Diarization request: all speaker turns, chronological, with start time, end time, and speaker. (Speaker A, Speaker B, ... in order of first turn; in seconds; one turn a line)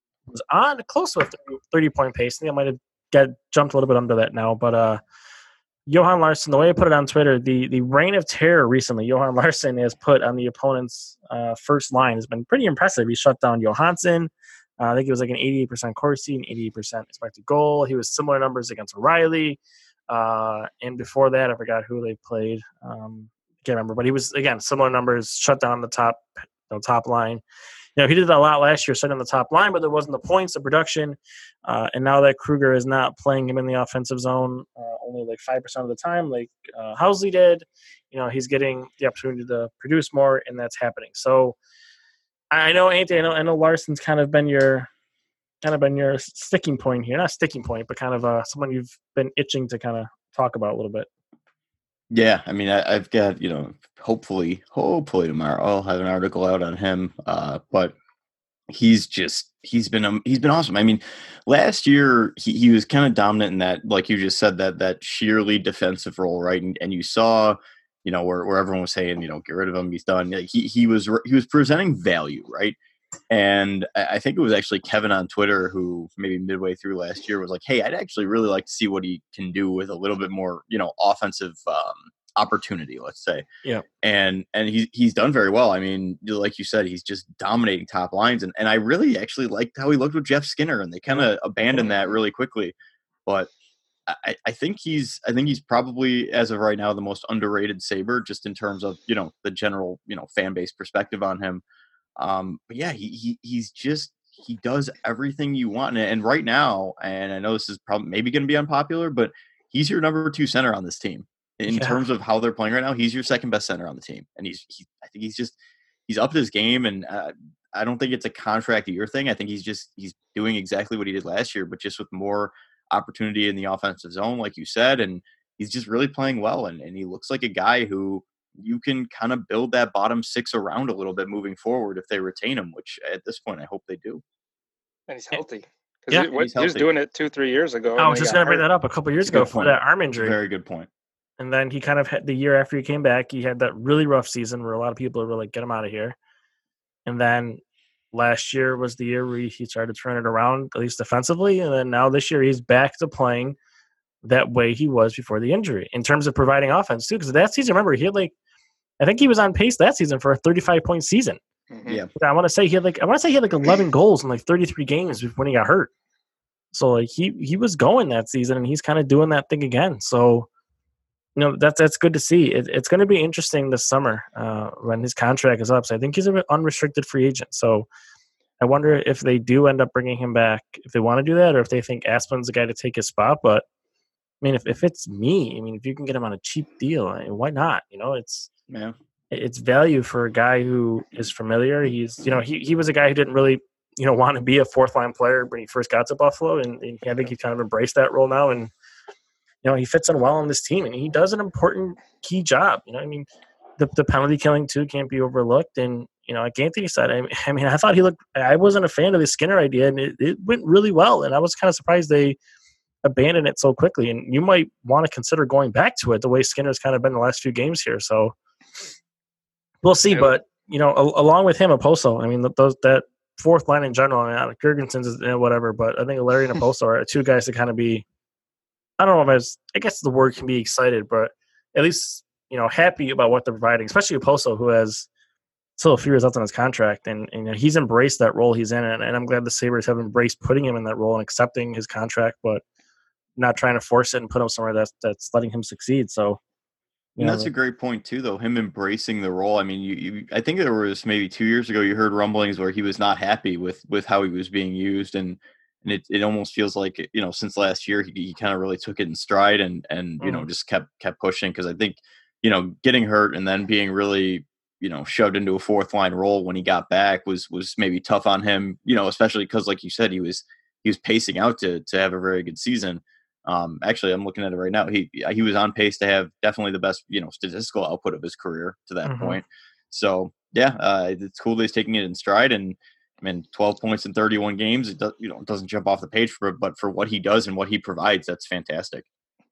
Speaker A: 0.3-5.0
Speaker A: 5.9-27.4
Speaker A: 28.0-41.6
Speaker A: 42.5-44.9
Speaker A: 45.6-51.1
Speaker B: 52.1-58.0
Speaker B: 58.7-72.8
Speaker B: 73.3-83.5
Speaker B: 84.0-92.8
Speaker B: 93.3-93.5
Speaker B: 94.1-101.6
Speaker B: 102.2-115.6
Speaker A: 111.7-112.0
Speaker B: 116.1-134.2
Speaker C: 135.1-138.6
Speaker B: 136.3-136.9
Speaker A: 138.0-140.4
Speaker B: 139.2-140.9
Speaker A: 141.4-146.2
Speaker A: 147.1-153.6
Speaker A: 154.2-158.3
Speaker A: 159.0-161.4
Speaker C: 161.7-162.0
Speaker A: 162.2-165.9
Speaker A: 166.7-170.5
Speaker A: 171.4-177.9
Speaker A: 178.6-183.7
Speaker A: 184.4-188.5
Speaker B: 188.7-188.9
Speaker A: 189.3-198.7
Speaker A: 199.6-203.3
Speaker A: 203.8-212.4
Speaker A: 213.0-218.3
Speaker A: 219.8-228.1
Speaker A: 229.0-235.1
Speaker A: 235.8-242.6
Speaker A: 243.4-246.4
Speaker A: 247.2-247.5
Speaker B: 247.2-289.1
Speaker A: 279.0-279.4